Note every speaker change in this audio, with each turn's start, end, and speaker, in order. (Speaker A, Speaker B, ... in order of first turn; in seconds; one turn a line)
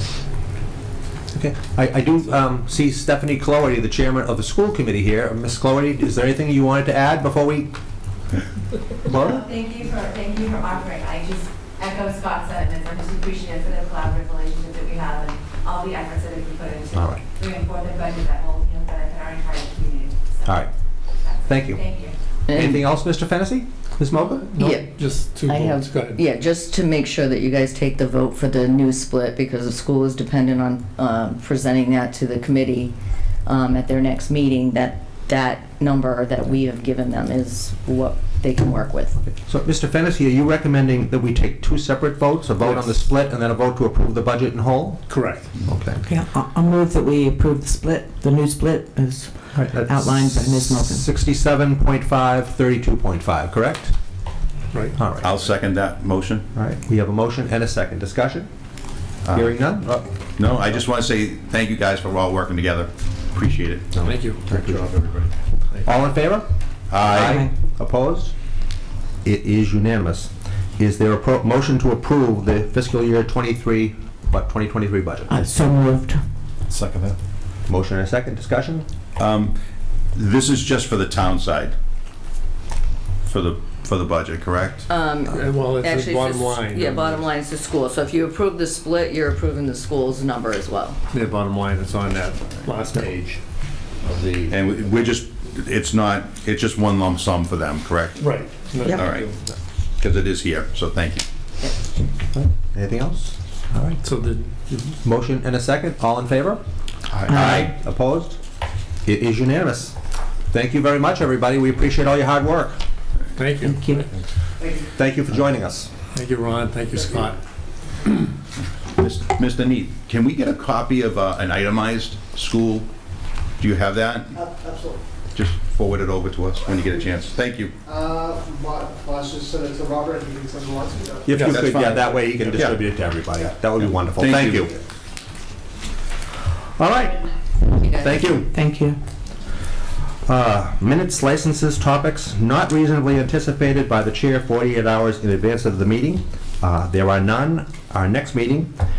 Speaker A: 1.3-7.7
Speaker A: 9.0-9.5
Speaker B: 9.1-20.6
Speaker A: 16.9-17.2
Speaker A: 20.4-20.7
Speaker B: 21.2-22.1
Speaker A: 21.4-21.9
Speaker C: 22.5-22.8
Speaker A: 22.5-24.4
Speaker D: 24.2-26.2
Speaker C: 24.5-24.9
Speaker C: 25.4-32.9
Speaker C: 33.5-39.2
Speaker A: 39.2-45.1
Speaker D: 45.1-45.6
Speaker A: 45.7-46.0
Speaker E: 46.0-51.0
Speaker D: 49.6-49.8
Speaker A: 49.7-54.0
Speaker D: 54.7-55.0
Speaker A: 55.0-55.2
Speaker F: 55.2-56.4
Speaker A: 56.5-58.5
Speaker F: 59.2-59.5
Speaker A: 59.3-60.0
Speaker F: 60.4-63.9
Speaker A: 63.9-64.9
Speaker D: 64.0-65.9
Speaker A: 65.8-68.3
Speaker F: 66.9-67.4
Speaker E: 67.2-67.5
Speaker A: 69.2-75.3
Speaker E: 75.3-76.2
Speaker F: 76.7-77.1
Speaker A: 77.7-78.8
Speaker F: 79.2-79.6
Speaker F: 80.1-81.8
Speaker F: 83.2-84.9
Speaker C: 84.9-91.0
Speaker D: 85.2-87.3
Speaker D: 91.1-93.4
Speaker D: 94.0-94.6
Speaker F: 94.5-98.2
Speaker D: 98.2-99.3
Speaker F: 98.8-99.4
Speaker F: 100.0-101.2
Speaker A: 102.3-103.3
Speaker D: 103.7-105.0
Speaker A: 105.0-106.6
Speaker A: 107.3-108.4
Speaker E: 107.3-107.7
Speaker A: 109.0-110.0
Speaker A: 110.5-112.8
Speaker D: 113.3-114.3
Speaker E: 113.6-114.0
Speaker A: 114.9-115.9
Speaker D: 116.1-117.4
Speaker F: 118.9-122.9
Speaker F: 123.6-124.4
Speaker G: 124.7-125.0
Speaker F: 125.3-127.7
Speaker G: 127.9-131.3
Speaker A: 131.2-134.8
Speaker F: 131.5-132.8
Speaker F: 134.2-134.7
Speaker A: 136.8-138.5
Speaker E: 138.5-139.0
Speaker A: 140.2-148.7